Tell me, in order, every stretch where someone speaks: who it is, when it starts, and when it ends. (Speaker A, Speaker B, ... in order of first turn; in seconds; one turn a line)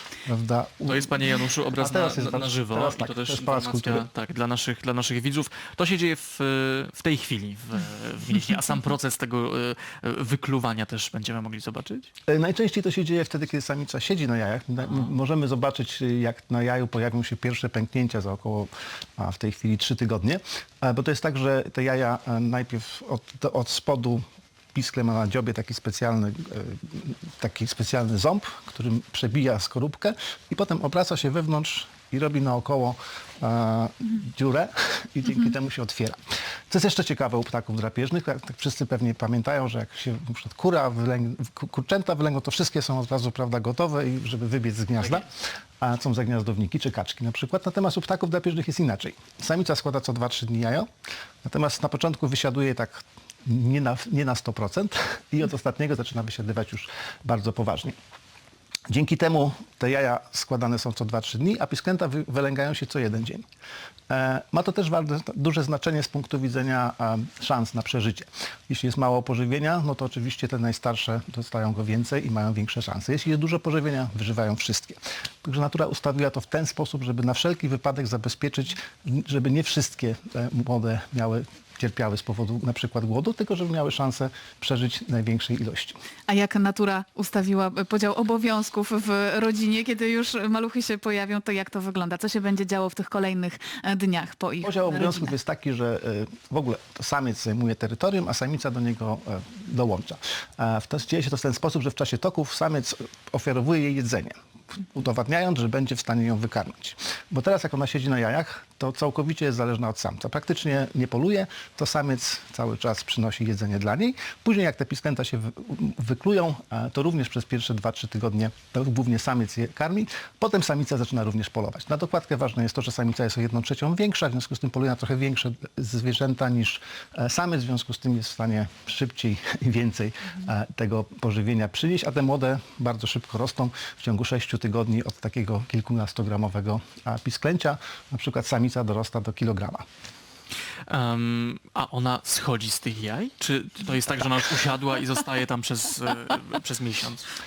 Speaker A: 0.2-4.1
Speaker B: 0.9-12.1
Speaker A: 12.3-36.2
Speaker A: 36.7-45.3
Speaker A: 45.8-50.9
Speaker A: 51.4-58.0
Speaker A: 58.9-63.4
Speaker A: 64.1-86.0
Speaker C: 86.3-95.3
Speaker A: 94.6-139.8
Speaker B: 140.9-147.3